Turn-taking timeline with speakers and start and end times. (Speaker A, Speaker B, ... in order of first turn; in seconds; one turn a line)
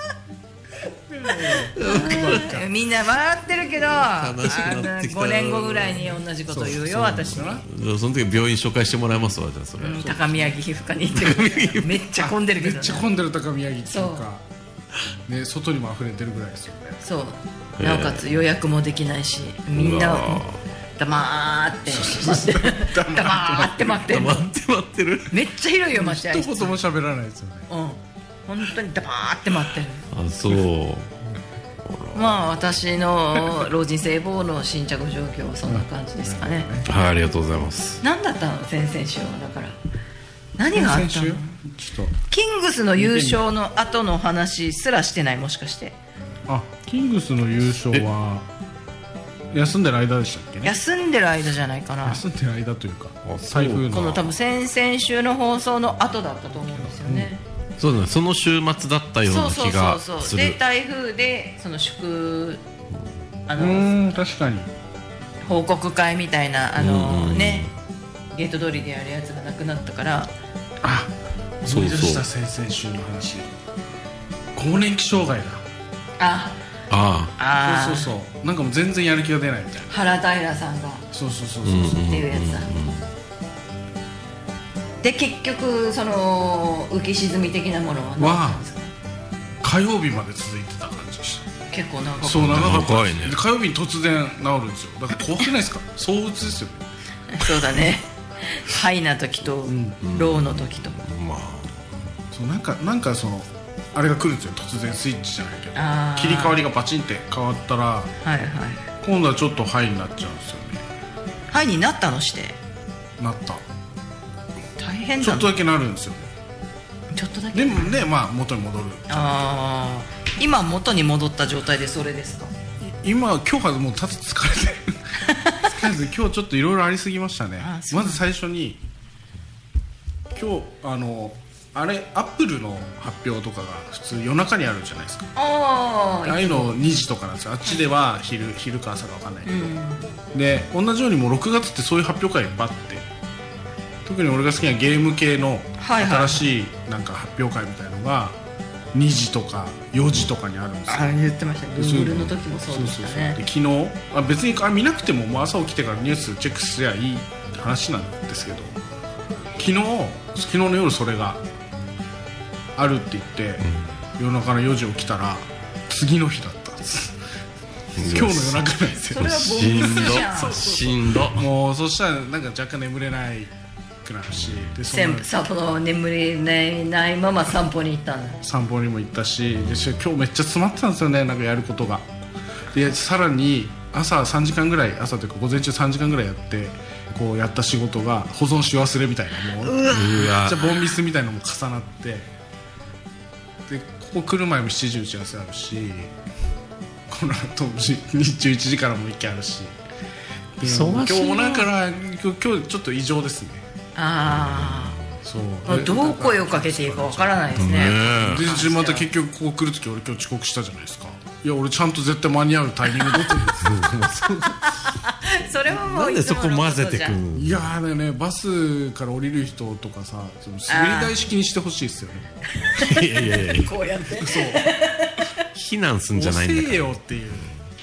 Speaker A: 1.1-2.6
Speaker B: 1.5-7.6
Speaker C: 1.8-2.6
Speaker C: 3.8-10.1
Speaker A: 6.5-7.6
Speaker B: 9.8-13.1
Speaker A: 10.0-10.4
Speaker C: 11.1-12.0
Speaker A: 12.2-14.4
Speaker B: 13.9-14.3
Speaker A: 15.3-17.0
Speaker B: 17.0-20.4
Speaker C: 17.8-18.2
Speaker C: 19.8-20.6
Speaker B: 21.0-24.5
Speaker A: 21.9-23.8
Speaker C: 24.1-25.4
Speaker B: 25.3-26.8
Speaker A: 25.9-27.7
Speaker B: 27.7-30.1
Speaker C: 30.1-31.2
Speaker C: 31.9-32.4
Speaker B: 32.1-36.7
Speaker A: 35.7-36.9
Speaker C: 36.9-38.0
Speaker B: 38.0-39.8
Speaker B: 40.6-41.6
Speaker A: 40.7-42.1
Speaker B: 42.3-46.0
Speaker A: 43.0-43.4
Speaker A: 46.5-48.5
Speaker A: 49.5-50.7
Speaker B: 50.6-52.2
Speaker A: 52.0-54.3
Speaker C: 53.3-53.9
Speaker B: 53.9-57.4
Speaker A: 57.0-57.3
Speaker C: 57.8-60.6
Speaker B: 59.3-62.6
Speaker B: 63.5-64.1
Speaker A: 63.6-64.7
Speaker B: 65.4-67.7
Speaker C: 66.8-67.7
Speaker B: 68.3-70.3
Speaker A: 70.8-73.5
Speaker C: 71.7-72.2
Speaker A: 74.5-75.6
Speaker B: 76.2-76.6
Speaker C: 76.9-77.4
Speaker B: 77.4-78.1
Speaker A: 77.6-79.9
Speaker B: 79.9-81.1
Speaker A: 81.1-82.2
Speaker C: 81.6-83.1
Speaker B: 82.1-82.7
Speaker B: 85.0-88.9
Speaker A: 88.2-88.6
Speaker A: 89.6-91.5
Speaker B: 91.7-92.8
Speaker A: 92.2-96.9
Speaker C: 92.3-93.4
Speaker B: 97.3-101.0
Speaker A: 99.7-100.0
Speaker C: 100.0-101.8
Speaker A: 102.3-108.1
Speaker B: 105.8-106.6
Speaker B: 108.2-108.8
Speaker A: 109.0-110.8
Speaker B: 111.5-112.6
Speaker A: 113.2-113.6
Speaker B: 114.8-115.5
Speaker A: 115.2-116.3
Speaker B: 117.1-118.1
Speaker A: 117.5-119.3
Speaker B: 119.1-122.5
Speaker A: 122.8-128.8
Speaker B: 125.2-125.7
Speaker B: 127.6-128.2
Speaker A: 130.3-135.3
Speaker B: 135.4-136.8
Speaker A: 136.3-139.7
Speaker B: 139.5-140.1
Speaker A: 140.3-143.1
Speaker A: 144.1-148.4
Speaker B: 145.8-146.5
Speaker A: 148.9-151.2
Speaker B: 150.9-153.4
Speaker A: 151.8-158.8
Speaker A: 159.6-161.4
Speaker A: 162.8-163.7
Speaker A: 164.2-167.2
Speaker C: 168.0-171.5
Speaker A: 168.0-173.5
Speaker B: 169.1-170.7
Speaker A: 174.0-175.3
Speaker B: 174.9-178.4
Speaker A: 178.4-182.1
Speaker A: 182.7-192.3
Speaker B: 189.6-190.4
Speaker C: 189.9-190.7
Speaker A: 193.7-196.1
Speaker A: 197.1-199.8
Speaker A: 200.6-203.7
Speaker C: 200.6-201.7
Speaker B: 204.0-205.0
Speaker C: 204.3-205.0
Speaker A: 205.2-214.3
Speaker B: 205.7-209.1
Speaker C: 207.6-208.5
Speaker B: 213.0-213.4
Speaker C: 213.6-214.8
Speaker B: 214.5-217.2
Speaker C: 215.7-217.6
Speaker A: 217.3-222.3
Speaker B: 220.7-221.2
Speaker B: 222.5-225.5
Speaker C: 222.8-223.7
Speaker A: 224.2-224.7
Speaker C: 225.5-226.9
Speaker A: 226.2-227.5